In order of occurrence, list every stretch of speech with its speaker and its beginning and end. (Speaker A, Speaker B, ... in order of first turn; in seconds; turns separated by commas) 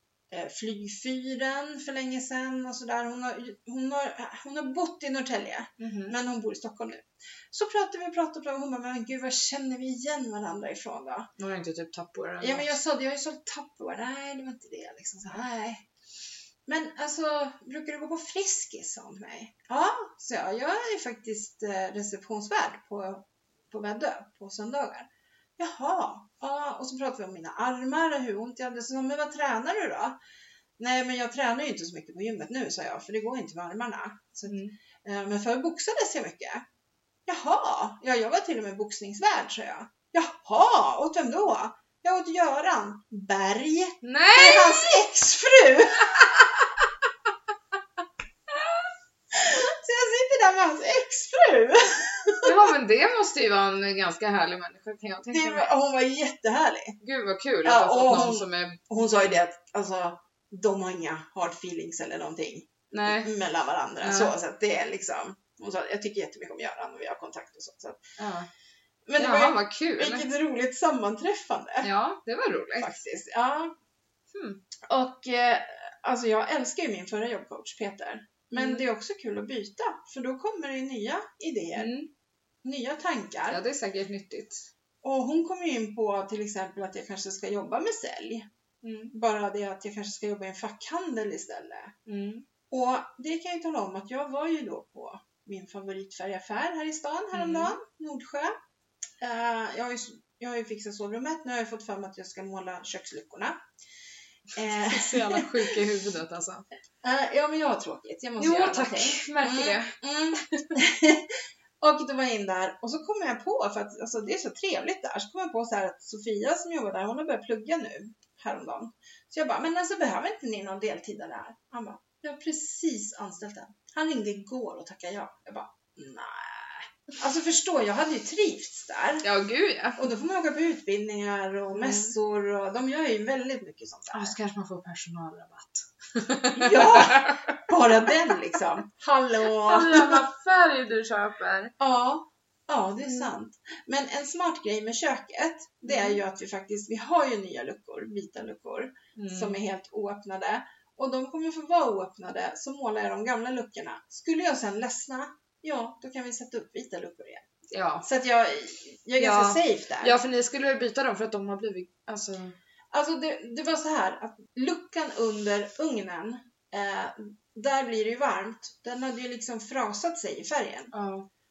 Speaker A: 0.3-11.3, Speaker B: 5.8-6.2, Speaker B: 11.4-12.8, Speaker A: 12.4-15.8, Speaker A: 16.7-30.2, Speaker A: 30.8-36.6, Speaker B: 34.5-34.8, Speaker A: 37.3-46.3, Speaker B: 44.0-45.0, Speaker A: 49.3-52.5, Speaker B: 52.4-55.7, Speaker A: 55.3-57.0, Speaker B: 57.0-59.0, Speaker A: 57.6-68.0, Speaker B: 62.9-63.3, Speaker B: 64.0-64.3, Speaker B: 68.2-68.5, Speaker A: 69.1-71.9, Speaker B: 69.2-70.3, Speaker B: 71.8-73.0, Speaker A: 72.8-73.8, Speaker B: 74.3-74.6, Speaker A: 74.9-81.9, Speaker B: 78.5-78.8, Speaker B: 81.8-82.1, Speaker A: 82.6-83.6, Speaker B: 83.5-84.7, Speaker A: 85.0-88.5, Speaker B: 88.8-89.1, Speaker A: 89.1-91.9, Speaker B: 92.1-92.5, Speaker A: 92.7-98.5, Speaker B: 97.3-97.8, Speaker A: 99.2-103.6, Speaker A: 104.5-105.8, Speaker B: 104.7-106.7, Speaker A: 107.0-129.2, Speaker B: 108.4-109.9, Speaker B: 110.5-110.8, Speaker B: 129.2-130.1, Speaker A: 130.0-134.3, Speaker B: 131.7-132.2, Speaker B: 134.1-137.6, Speaker A: 136.5-140.3, Speaker B: 139.6-141.7, Speaker A: 141.8-157.4, Speaker B: 143.0-143.3, Speaker B: 145.8-146.2, Speaker B: 149.2-149.6, Speaker B: 157.7-158.1, Speaker A: 158.0-160.2, Speaker B: 159.2-162.6, Speaker A: 162.9-170.9, Speaker B: 170.9-171.3